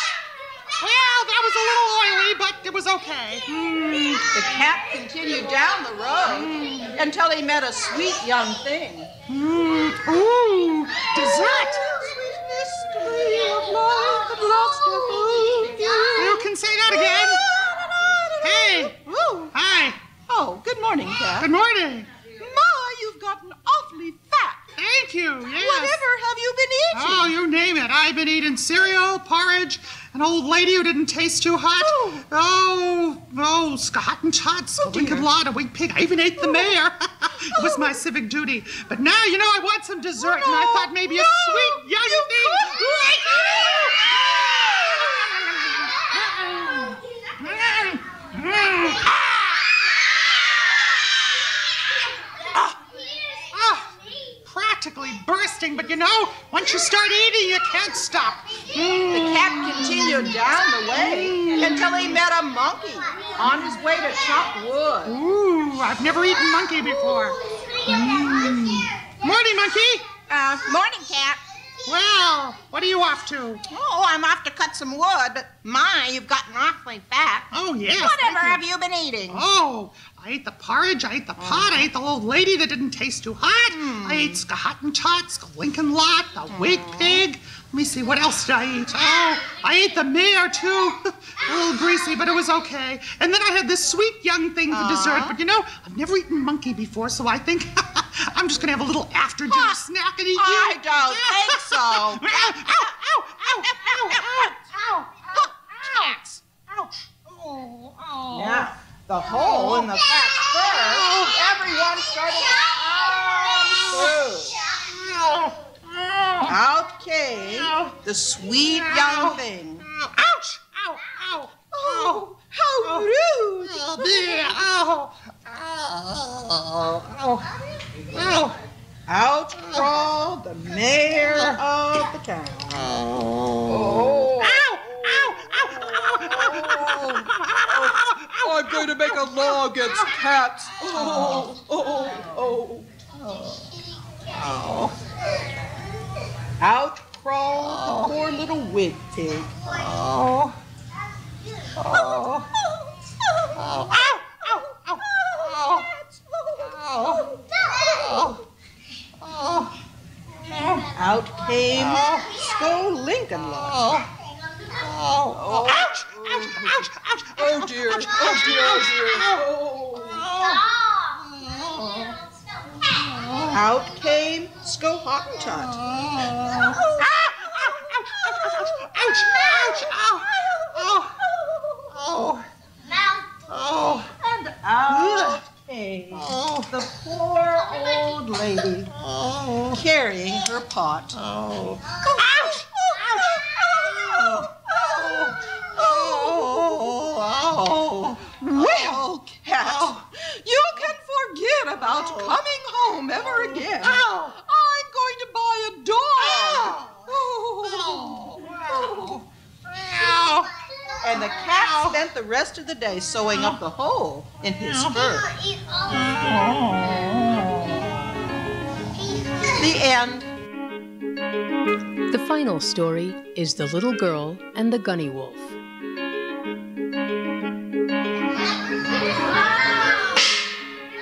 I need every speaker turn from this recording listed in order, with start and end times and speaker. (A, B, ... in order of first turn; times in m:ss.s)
0:00.8-0:04.3 A
0:04.3-0:09.1 B
0:06.3-0:06.9 A
0:09.3-0:11.8 A
0:11.2-0:19.5 B
0:13.5-0:13.8 C
0:16.2-0:17.4 A
0:18.4-0:19.0 A
0:19.5-0:20.0 A
0:20.3-0:21.5 B
0:21.4-0:22.1 A
0:22.4-0:24.6 B
0:24.8-0:26.0 A
0:25.5-0:27.3 B
0:26.9-0:50.1 A
0:31.8-0:32.2 B
0:34.8-0:35.3 B
0:36.4-0:36.7 B
0:37.5-0:38.0 B
0:40.2-0:45.1 B
0:53.5-1:00.4 A
0:59.1-1:05.2 B
1:00.9-1:02.2 A
1:03.4-1:03.8 A
1:05.0-1:10.1 A
1:07.9-1:08.7 B
1:10.3-1:11.4 B
1:11.8-1:13.6 A
1:13.7-1:19.4 B
1:17.5-1:18.6 A
1:19.3-1:48.7 A
1:21.4-1:21.8 B
1:23.7-1:24.4 B
1:26.5-1:27.2 B
1:34.7-1:35.4 B
1:39.5-1:39.8 B
1:40.3-1:42.9 B
1:43.7-1:44.5 B
1:48.3-1:54.6 B
1:49.3-1:49.9 A
1:50.6-1:51.4 A
1:52.8-1:56.6 A
1:56.4-1:59.8 B
1:57.4-1:58.0 A
1:58.7-2:02.2 A
2:01.7-2:04.3 B
2:02.8-2:03.1 A
2:03.6-2:07.6 A
2:08.1-2:08.6 A
2:09.1-2:12.9 B
2:09.6-2:09.9 A
2:11.3-2:11.6 A
2:12.7-2:20.1 A
2:13.7-2:14.3 C
2:13.7-2:17.2 B
2:17.7-2:21.7 C
2:20.9-2:21.5 A
2:20.9-2:22.8 B
2:23.2-2:23.7 A
2:24.2-2:24.9 A
2:26.6-2:29.6 B
2:27.6-2:28.1 A
2:29.7-2:30.6 A
2:31.8-2:32.5 A
2:32.6-2:34.0 B
2:33.5-2:35.9 A
2:35.1-2:36.6 B
2:36.6-2:38.4 A
2:39.2-2:39.7 A
2:40.4-2:40.9 A
2:40.9-2:43.9 B
2:41.7-2:42.4 A
2:43.6-2:44.1 A
2:44.7-2:49.4 A
2:45.3-2:46.8 C
2:47.4-2:49.4 C
2:49.3-2:50.3 B
2:50.0-2:52.2 A
2:52.8-2:53.6 A
2:53.5-2:55.8 B
2:55.6-3:01.2 A
2:56.5-3:01.9 B
3:01.9-3:02.5 A
3:03.3-3:04.1 A
3:04.2-3:08.9 B
3:04.9-3:05.4 A
3:06.1-3:06.7 A
3:08.9-3:09.8 A
3:09.7-3:11.2 B
3:11.1-3:19.0 A
3:12.0-3:17.0 B
3:18.3-3:29.1 B
3:19.6-3:19.9 A
3:21.8-3:22.4 A
3:23.2-3:24.3 A
3:26.2-3:30.5 A
3:31.0-3:35.3 B
3:31.5-3:32.0 A
3:33.3-3:33.6 A
3:35.6-3:38.2 A
3:39.5-3:40.3 B
3:42.1-3:45.6 D